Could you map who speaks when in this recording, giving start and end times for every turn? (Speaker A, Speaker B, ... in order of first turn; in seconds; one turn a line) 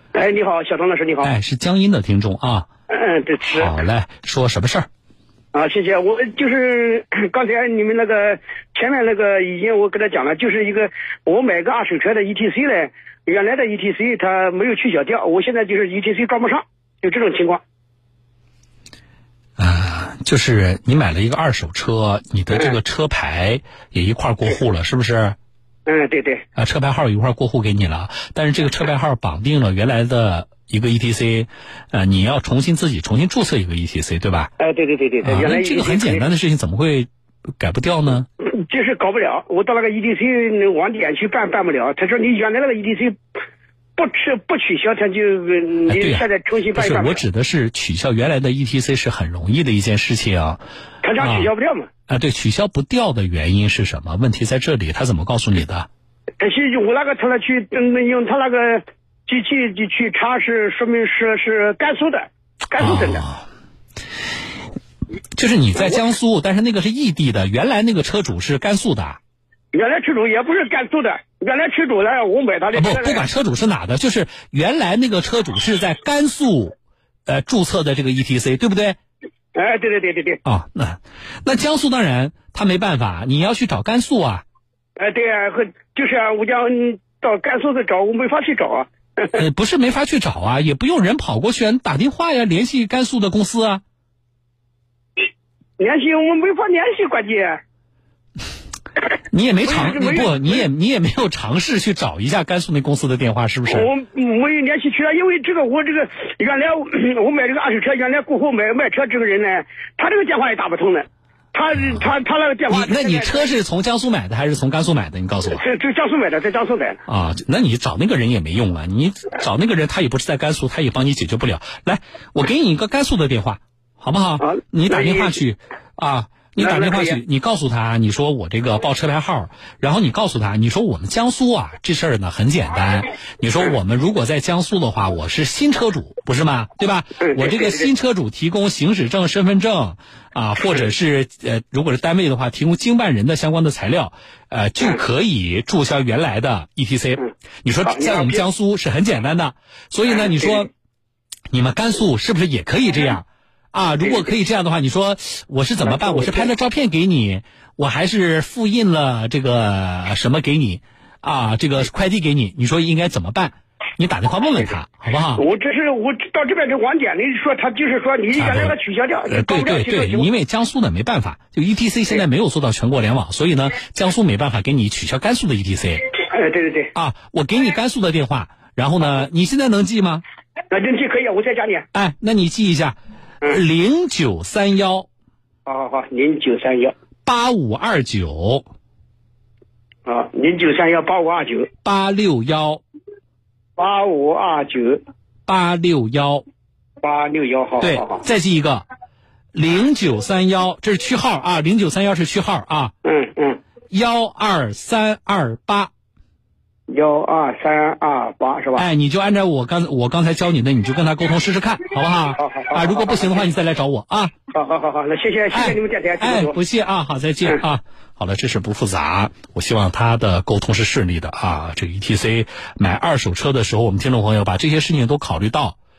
Speaker A: 0.1-1.3
Speaker B: 1.2-2.7
Speaker A: 2.9-3.7
Speaker B: 3.5-4.9
Speaker A: 5.5-17.6
Speaker B: 19.6-25.4
Speaker A: 25.9-26.4
Speaker B: 26.6-34.5
Speaker A: 34.6-36.3
Speaker B: 35.2-38.3
Speaker A: 38.4-43.2
Speaker A: 44.0-47.2
Speaker B: 45.9-50.6
Speaker A: 51.0-51.9
Speaker B: 51.2-51.5
Speaker B: 52.1-55.9
Speaker A: 56.4-63.2
Speaker B: 62.8-63.4
Speaker B: 65.3-69.2
Speaker A: 69.7-73.2
Speaker B: 72.7-76.8
Speaker B: 77.3-79.0
Speaker A: 79.5-80.4
Speaker B: 80.4-84.4
Speaker A: 85.0-89.3
Speaker B: 89.3-93.8
Speaker A: 95.8-97.6
Speaker B: 99.3-103.9
Speaker A: 99.6-100.7
Speaker A: 103.7-113.5
Speaker B: 112.7-115.6
Speaker A: 115.6-117.0
Speaker B: 117.1-150.7
Speaker A: 124.4-125.3
Speaker A: 126.6-127.2
Speaker A: 147.8-148.4
Speaker B: 151.5-165.4
Speaker A: 155.8-156.5
Speaker A: 165.3-170.3
Speaker B: 168.3-168.7
Speaker B: 169.3-176.1
Speaker A: 176.3-176.9
Speaker B: 176.9-180.2
Speaker A: 180.7-181.8
Speaker B: 181.9-185.1
Speaker A: 185.7-186.9
Speaker B: 187.2-188.6
Speaker A: 190.1-191.7
Speaker B: 191.8-192.8
Speaker A: 193.8-195.0
Speaker B: 195.5-196.4
Speaker A: 197.0-198.2
Speaker B: 197.8-198.8
Speaker B: 199.5-202.9
Speaker A: 203.0-203.6
Speaker B: 203.9-205.9
Speaker A: 206.9-208.8
Speaker B: 208.8-214.3
Speaker A: 212.4-213.4
Speaker A: 214.5-216.6
Speaker B: 215.5-225.8